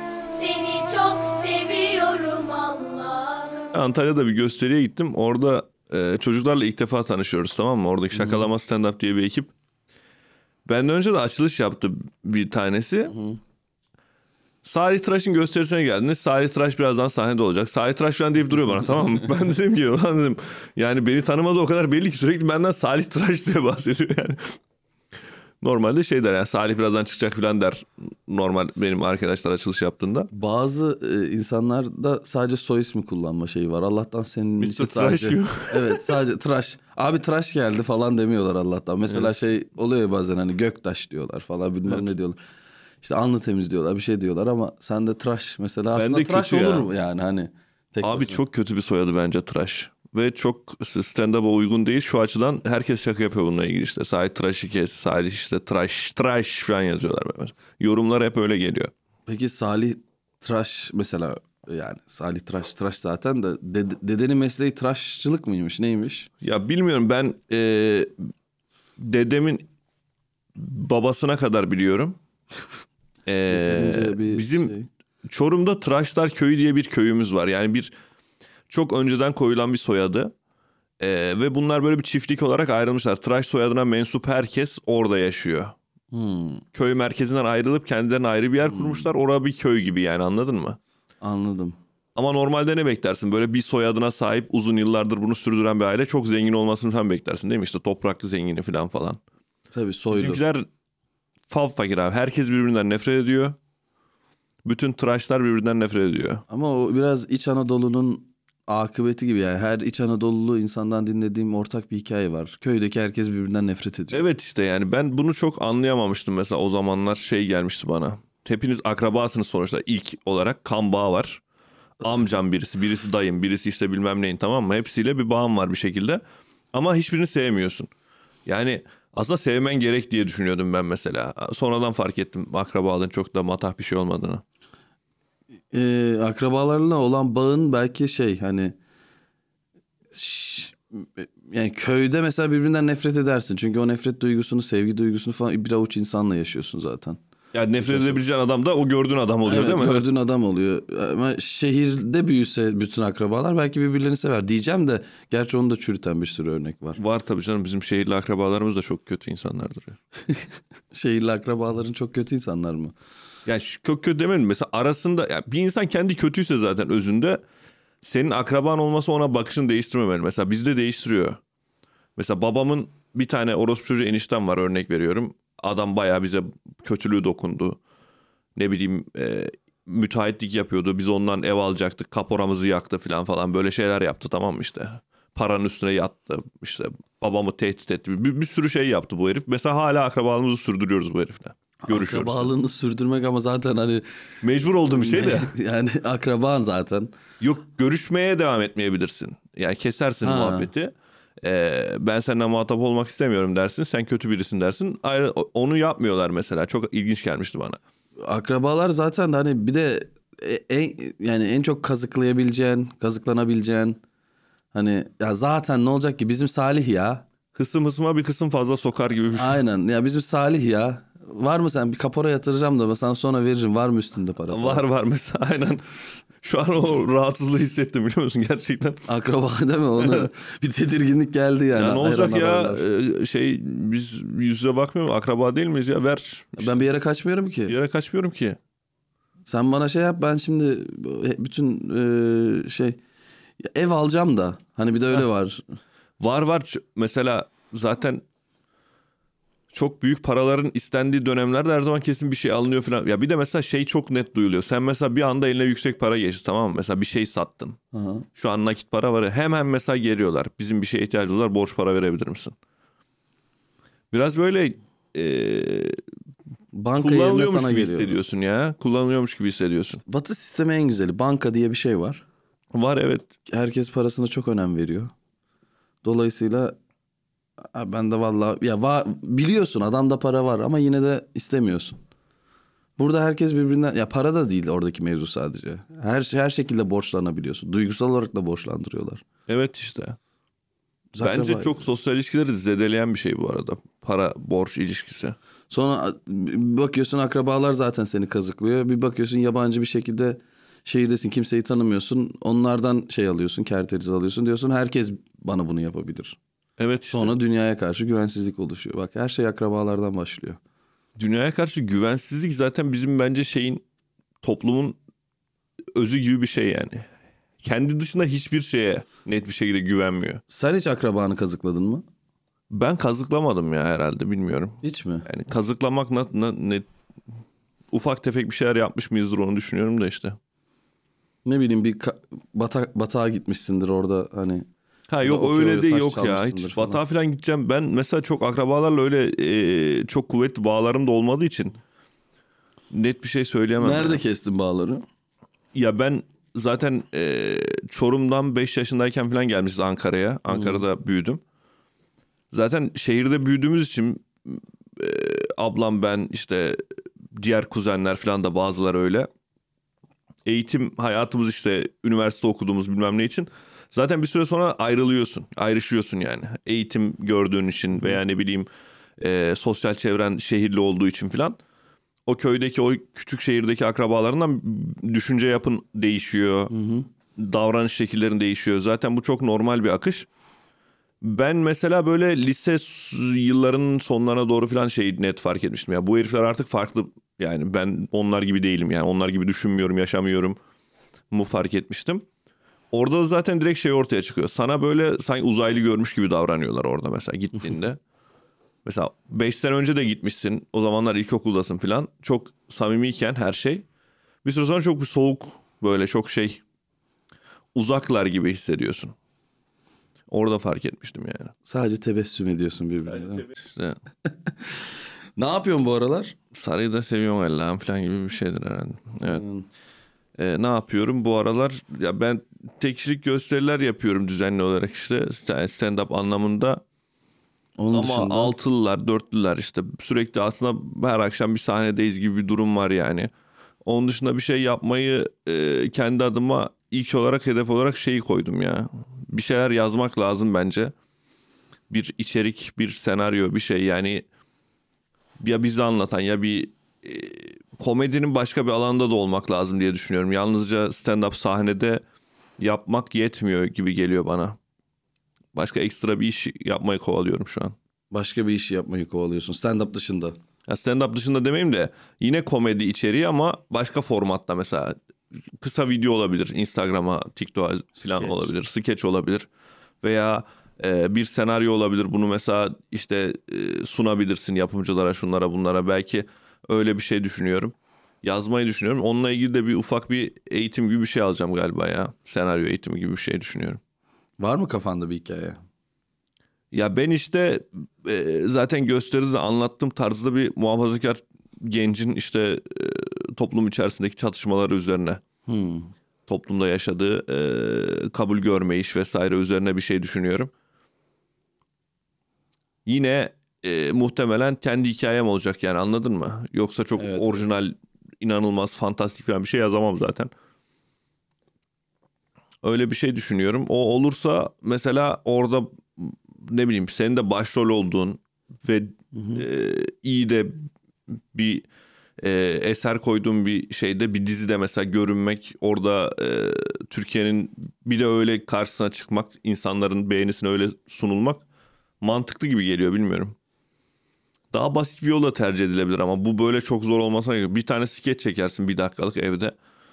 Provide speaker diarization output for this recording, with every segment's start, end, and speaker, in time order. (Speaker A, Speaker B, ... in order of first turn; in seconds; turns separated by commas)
Speaker A: 0.3-3.7, Speaker B: 3.7-9.5, Speaker C: 8.1-8.4, Speaker B: 10.7-13.2, Speaker C: 13.1-13.4, Speaker B: 14.6-24.6, Speaker B: 25.6-30.3, Speaker C: 30.3-42.4, Speaker B: 34.6-36.2, Speaker C: 43.0-48.4, Speaker B: 46.0-46.9, Speaker B: 48.0-58.9, Speaker C: 59.3-66.3, Speaker B: 66.4-68.3, Speaker B: 69.0-69.7, Speaker B: 70.6-72.2, Speaker B: 73.3-74.7, Speaker C: 73.5-74.9, Speaker B: 75.3-77.9, Speaker B: 78.7-80.3, Speaker B: 81.0-85.8, Speaker C: 86.1-86.6, Speaker B: 86.7-90.8, Speaker C: 88.7-89.0, Speaker C: 91.2-91.8, Speaker B: 92.2-99.2, Speaker C: 99.7-100.4, Speaker B: 100.1-100.7, Speaker B: 101.5-103.6, Speaker B: 104.7-106.4, Speaker C: 106.5-114.2, Speaker B: 114.1-121.4, Speaker B: 122.0-126.2, Speaker B: 126.7-127.9, Speaker B: 128.5-134.4, Speaker C: 135.7-138.8, Speaker C: 140.1-147.2, Speaker B: 147.5-150.1, Speaker C: 147.8-148.2, Speaker C: 149.5-157.0, Speaker B: 157.0-160.0, Speaker C: 160.9-162.9, Speaker B: 163.5-167.4, Speaker B: 168.0-171.4, Speaker B: 172.2-177.8, Speaker B: 178.6-192.5, Speaker C: 191.8-194.1, Speaker B: 194.4-195.5, Speaker C: 195.0-197.1, Speaker B: 197.4-207.8, Speaker C: 200.2-200.7, Speaker C: 208.2-214.0, Speaker C: 214.7-217.2, Speaker B: 217.6-219.6, Speaker C: 219.3-224.8, Speaker B: 224.5-225.8, Speaker B: 226.4-229.1, Speaker C: 229.1-232.8, Speaker B: 231.8-236.7, Speaker C: 236.6-237.8, Speaker B: 237.7-238.6, Speaker C: 239.5-243.0, Speaker C: 243.6-245.6, Speaker B: 246.2-248.2, Speaker B: 249.7-257.8, Speaker C: 257.9-258.3, Speaker B: 258.4-262.6, Speaker B: 264.1-266.0, Speaker C: 266.7-268.2, Speaker B: 267.0-270.0, Speaker C: 270.1-272.2, Speaker B: 272.7-273.3, Speaker C: 273.5-275.1, Speaker C: 276.0-276.8, Speaker C: 277.7-282.0, Speaker C: 283.0-289.2, Speaker B: 289.5-290.2, Speaker C: 291.1-291.8, Speaker B: 291.2-295.4, Speaker C: 295.7-306.4, Speaker B: 306.8-307.3, Speaker C: 307.1-310.6, Speaker B: 311.2-313.8, Speaker B: 314.4-315.0, Speaker B: 315.9-317.1, Speaker B: 317.6-320.4, Speaker C: 320.5-322.0, Speaker B: 322.7-326.9, Speaker C: 324.8-325.3, Speaker B: 327.9-330.4, Speaker C: 331.4-334.7, Speaker B: 335.1-341.8, Speaker C: 335.2-337.0, Speaker B: 342.9-344.2, Speaker C: 343.8-345.0, Speaker B: 345.7-351.4, Speaker C: 350.5-350.8, Speaker B: 352.5-359.3, Speaker B: 360.4-371.6, Speaker B: 372.3-376.7, Speaker C: 376.7-377.1, Speaker B: 377.4-380.3, Speaker B: 381.2-390.6, Speaker B: 391.3-392.2, Speaker B: 392.9-398.0, Speaker B: 398.9-403.9, Speaker B: 404.4-406.6, Speaker B: 407.8-409.1, Speaker B: 410.3-411.5, Speaker C: 411.6-413.5, Speaker B: 413.4-414.0, Speaker C: 415.4-416.4, Speaker B: 416.5-419.4, Speaker C: 419.2-419.7, Speaker B: 420.4-426.8, Speaker C: 427.8-428.5, Speaker B: 427.9-433.3, Speaker B: 433.9-440.9, Speaker B: 441.9-444.2, Speaker B: 445.4-452.0, Speaker B: 452.6-454.6, Speaker B: 455.5-457.8, Speaker C: 458.1-460.4, Speaker B: 460.7-465.0, Speaker B: 465.6-469.5, Speaker C: 468.0-468.5, Speaker B: 470.0-483.8, Speaker C: 484.4-485.6, Speaker B: 486.7-495.2, Speaker C: 495.5-495.9, Speaker B: 496.3-500.5, Speaker B: 502.9-510.3, Speaker C: 507.0-507.5, Speaker B: 512.6-520.6, Speaker C: 519.1-519.4, Speaker B: 521.3-521.7, Speaker B: 522.2-531.4, Speaker B: 532.0-533.4, Speaker B: 534.5-539.6